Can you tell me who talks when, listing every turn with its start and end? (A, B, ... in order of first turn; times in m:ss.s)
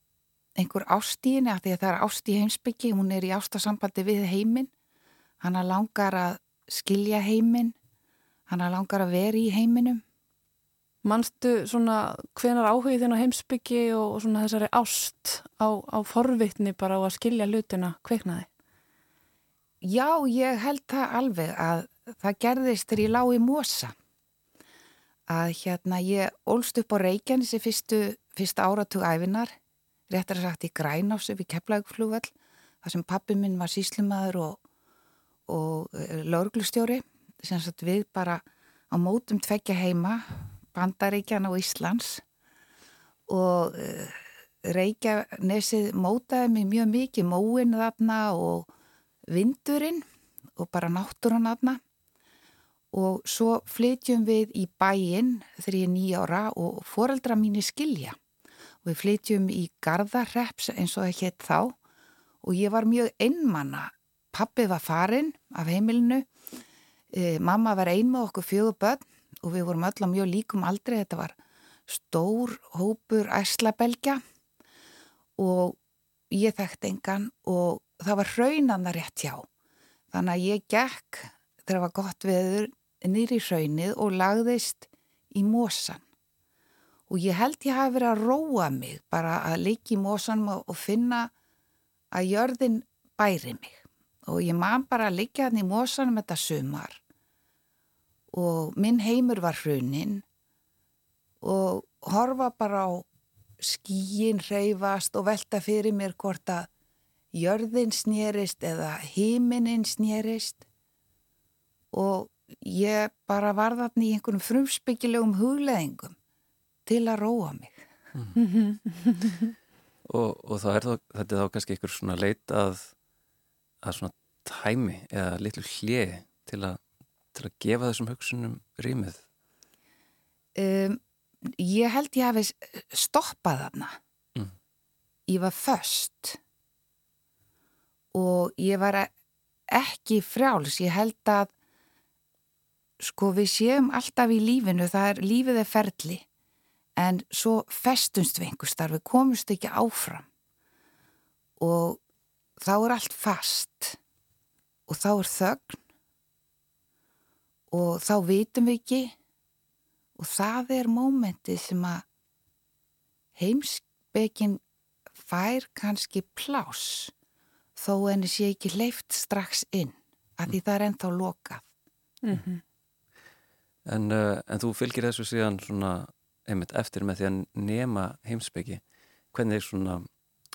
0:00.6-0:04.7 A
0:05.4-0:07.7 A
0:08.5-0:10.0 A
0:11.0-0:18.5 B
0:19.8-0:23.9 A
0:25.3-0:29.5 A
0:30.1-0:32.3 A
0:32.8-0:34.6 A
0:35.5-0:42.2 A
0:43.3-0:48.7 A
0:49.3-0:50.0 A
0:50.6-0:51.8 A
0:52.9-0:58.2 A
0:58.8-1:01.8 A
1:02.4-1:06.3 A
1:07.1-1:14.2 A
1:15.4-1:15.8 A
1:16.3-1:19.5 A
1:20.1-1:26.0 A
1:27.1-1:31.3 A
1:32.1-1:37.0 A
1:38.3-1:40.2 A
1:41.4-1:43.1 A
1:43.6-1:46.7 A
1:47.3-1:50.6 A
1:51.9-1:56.2 A
1:56.9-1:57.8 A
1:58.4-1:59.4 B
2:00.0-2:02.9 C
2:03.8-2:06.8 C
2:07.3-2:09.2 C
2:10.6-2:14.0 A
2:15.3-2:16.4 A
2:18.1-2:19.1 A
2:19.7-2:21.5 A
2:23.0-2:26.2 A
2:27.0-2:30.2 A
2:31.6-2:32.0 A
2:32.6-2:34.0 A
2:34.9-2:35.8 A
2:37.7-2:39.1 A
2:40.2-2:42.0 A
2:43.4-2:44.6 A
2:45.2-2:47.1 A
2:47.8-2:51.6 A
2:52.2-2:52.6 B
2:53.8-2:58.8 C
2:59.3-3:00.1 C